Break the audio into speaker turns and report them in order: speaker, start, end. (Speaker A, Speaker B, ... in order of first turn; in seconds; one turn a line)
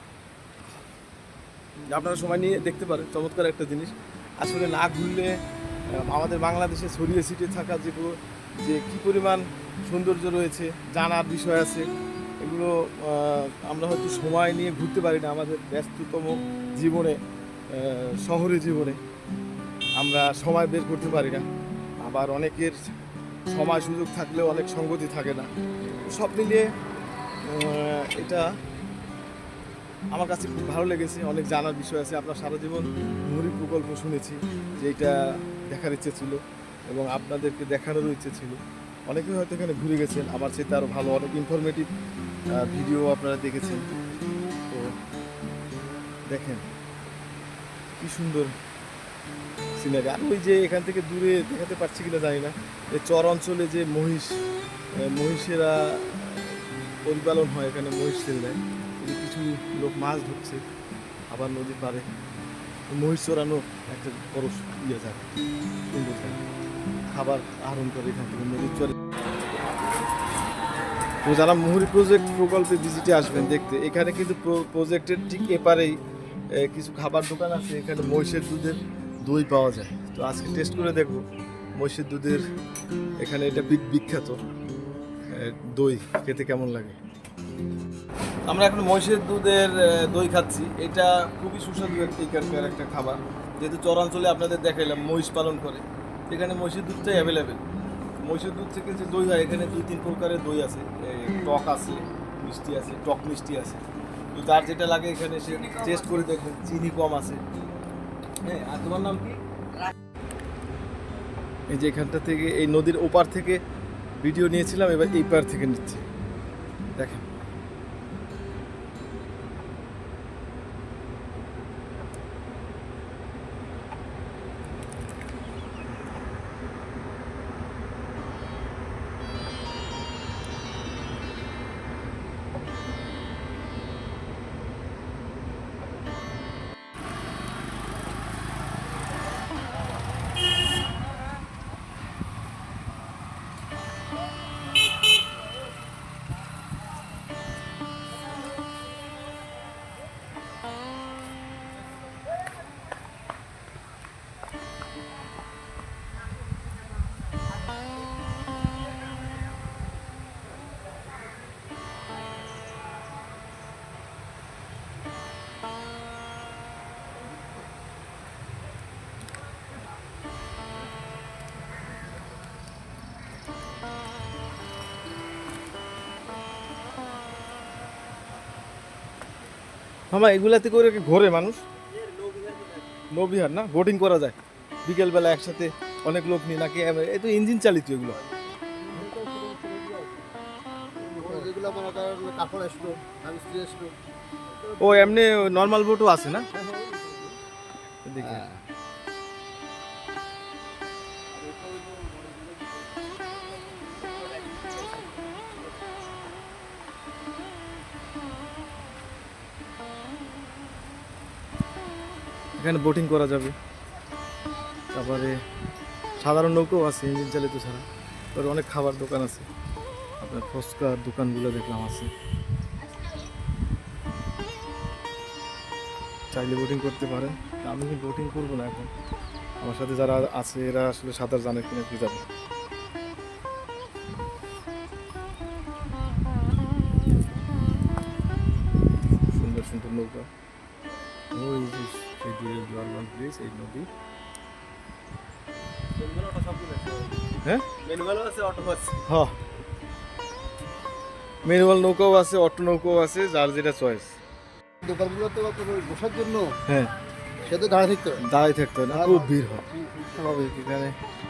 Speaker A: 1.9-5.3
Speaker A: 6.0-11.8
Speaker A: 12.4-17.2
Speaker A: 17.7-19.0
Speaker A: 20.0-21.4
Speaker A: 22.0-22.8
Speaker A: 23.5-25.5
Speaker A: 26.1-26.7
Speaker A: 27.5-28.5
Speaker A: 30.1-35.2
Speaker A: 35.7-41.9
Speaker A: 42.6-43.8
Speaker A: 46.3-46.6
Speaker A: 48.0-48.5
Speaker A: 49.8-54.4
Speaker A: 55.0-60.6
Speaker A: 61.3-62.1
Speaker A: 62.9-65.3
Speaker A: 65.9-66.4
Speaker A: 67.1-69.0
Speaker A: 71.2-76.0
Speaker A: 76.6-81.2
Speaker A: 81.8-82.4
Speaker A: 83.2-84.4
Speaker A: 85.3-87.0
Speaker A: 88.5-97.6
Speaker A: 98.2-103.8
Speaker A: 104.3-107.4
Speaker A: 108.5-109.4
Speaker A: 111.7-113.6
Speaker A: 114.2-116.0
Speaker A: 117.0-117.2
Speaker A: 180.1-181.6
Speaker B: 181.9-182.9
Speaker A: 183.1-188.2
Speaker C: 188.8-190.2
Speaker C: 191.0-193.9
Speaker C: 194.6-195.2
Speaker A: 194.8-196.5
Speaker C: 196.5-197.4
Speaker A: 198.1-198.6
Speaker B: 201.4-202.8
Speaker B: 203.8-205.5
Speaker A: 212.6-213.6
Speaker A: 214.9-215.3
Speaker A: 216.2-217.8
Speaker A: 218.3-219.5
Speaker A: 220.2-222.1
Speaker A: 226.3-228.9
Speaker A: 229.6-232.2
Speaker A: 239.2-240.3
Speaker A: 241.3-243.9
Speaker B: 246.0-247.2
Speaker B: 247.8-249.0
Speaker A: 249.1-249.3
Speaker A: 251.4-254.1
Speaker C: 254.8-256.6
Speaker C: 257.4-258.2
Speaker A: 258.3-260.9
Speaker C: 258.9-259.3